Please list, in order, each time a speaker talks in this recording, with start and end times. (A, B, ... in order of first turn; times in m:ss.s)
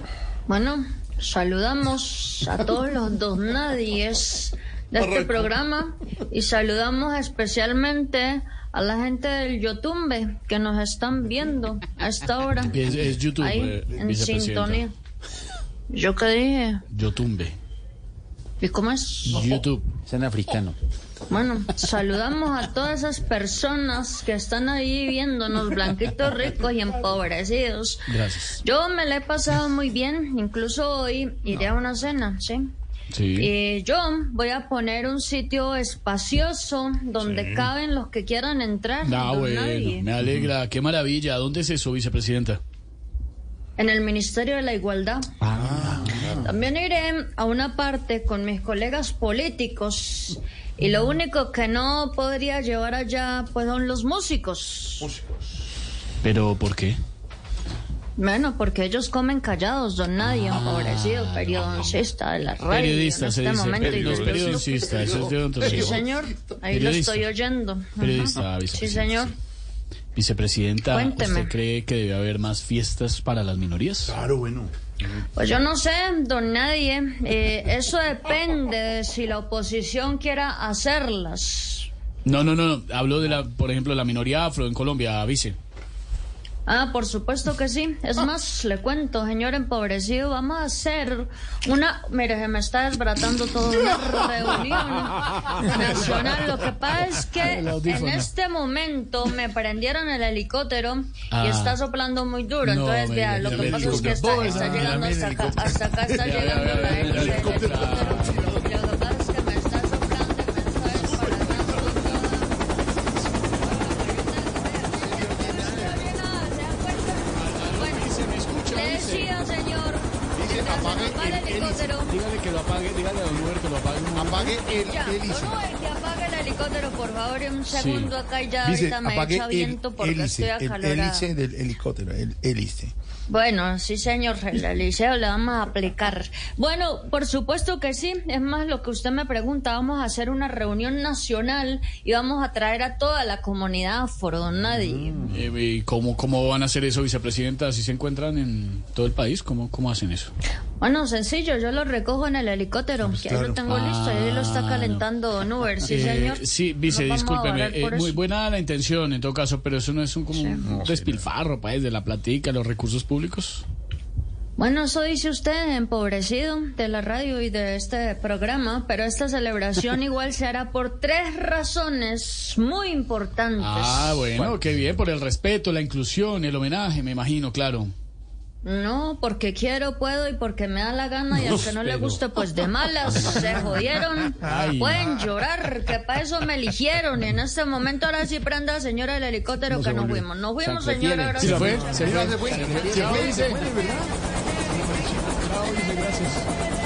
0:00.5-0:14.9 A
0:12.6-0:14.8 B
0:15.9-0:16.8 A
0:16.9-0:17.6 B
0:18.6-0:19.6 A
0:19.2-0:19.9 B
0:20.0-0:20.8 C
0:21.3-0:32.6 A
0:28.1-0:28.6 B
0:33.1-0:33.5 B
0:33.4-0:40.1 A
0:37.4-0:37.7 D
0:39.0-0:42.6 B
0:43.8-0:45.3 A
0:45.4-0:46.4 C
0:45.5-0:46.5 D
0:46.4-0:55.1 A
0:55.0-0:55.3 D
0:56.2-0:57.0 B
0:58.2-1:09.3 A
1:00.2-1:02.0 B
1:02.6-1:06.0 B
1:03.8-1:06.1 D
1:06.7-1:07.3 B
1:08.0-1:09.3 B
1:10.1-1:14.1 B
1:10.9-1:11.5 A
1:14.1-1:14.7 D
1:15.4-1:21.9 A
1:22.2-1:25.6 B
1:26.7-1:52.6 A
1:37.5-1:38.2 B
1:41.3-1:41.8 B
1:42.6-1:45.1 B
1:43.4-1:48.6 D
1:46.2-1:48.5 B
1:51.0-1:51.9 D
1:53.5-2:02.2 A
1:54.9-1:56.0 D
1:57.3-1:59.4 B
2:00.3-2:02.0 D
2:02.1-2:04.6 B
2:04.1-2:05.6 D
2:04.7-2:11.3 A
2:07.7-2:08.1 B
2:08.6-2:12.9 D
2:13.3-2:25.2 A
2:24.8-2:25.4 D
2:25.2-2:30.3 B
2:30.8-2:38.2 A
2:33.0-2:33.6 D
2:33.7-2:35.0 B
2:35.8-2:43.6 B
2:40.3-2:40.6 A
2:40.6-2:41.2 D
2:44.6-2:54.4 A
2:53.6-2:57.9 B
2:58.6-3:13.2 A
3:01.4-3:02.2 B
3:04.4-3:05.1 B
3:04.6-3:05.2 D
3:09.7-3:13.8 C
3:11.4-3:13.6 B
3:11.7-3:14.1 D
3:14.7-3:15.2 D
3:15.1-3:16.5 B